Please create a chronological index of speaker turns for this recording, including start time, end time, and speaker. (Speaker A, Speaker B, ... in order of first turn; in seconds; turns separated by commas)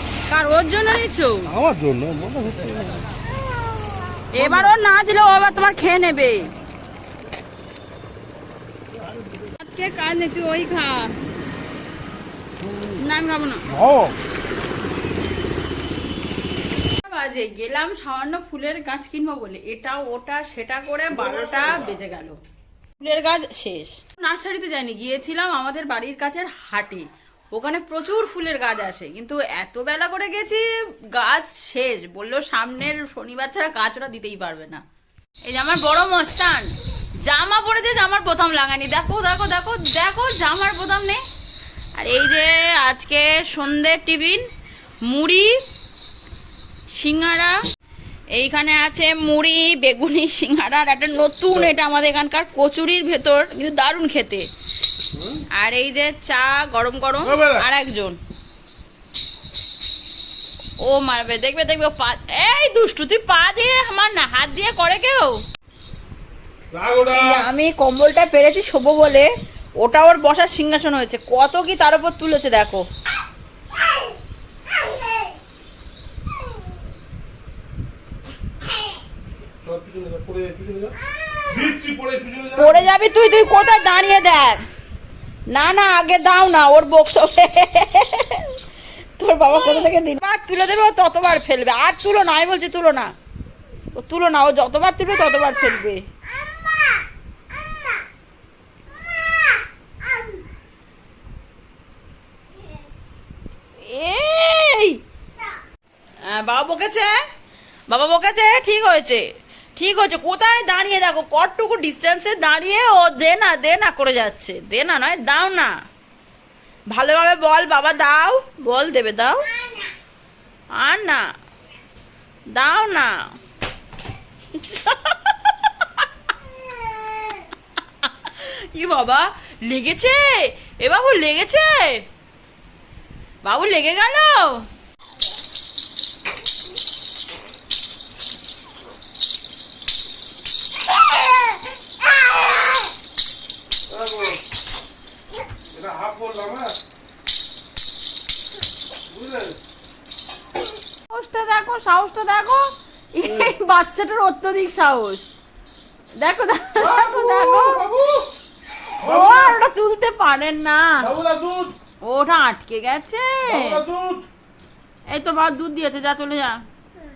Speaker A: 0.3-1.5, Speaker B: 1.5-3.0, Speaker A: 4.3-6.5, Speaker A: 9.6-11.2, Speaker B: 12.7-12.9, Speaker A: 12.9-13.7, Speaker B: 13.7-14.2, Speaker A: 17.0-22.4, Speaker A: 23.0-34.8, Speaker A: 35.4-36.7, Speaker A: 37.2-41.2, Speaker A: 42.0-44.5, Speaker A: 45.0-45.6, Speaker A: 46.9-47.6, Speaker A: 48.3-54.5, Speaker A: 55.5-58.2, Speaker B: 57.2-57.6, Speaker A: 60.8-65.4, Speaker B: 66.7-67.5, Speaker A: 67.1-72.8, Speaker B: 79.6-80.9, Speaker B: 81.5-82.8, Speaker A: 82.5-84.6, Speaker A: 85.5-88.6, Speaker A: 89.2-93.1, Speaker A: 93.9-96.0, Speaker A: 103.8-105.0, Speaker A: 106.2-107.2, Speaker A: 107.9-109.2, Speaker A: 109.8-115.7, Speaker A: 116.9-119.5, Speaker A: 120.8-121.2, Speaker A: 122.5-123.3, Speaker A: 124.5-126.0, Speaker A: 128.0-132.1, Speaker A: 133.4-134.7, Speaker B: 143.9-144.4, Speaker B: 145.7-146.8, Speaker B: 149.1-149.6, Speaker A: 151.1-155.2, Speaker A: 156.2-157.8, Speaker B: 156.8-158.3, Speaker B: 159.0-159.6, Speaker A: 159.0-161.1, Speaker B: 161.0-161.7, Speaker A: 162.0-163.8, Speaker B: 163.4-164.2, Speaker A: 165.1-166.6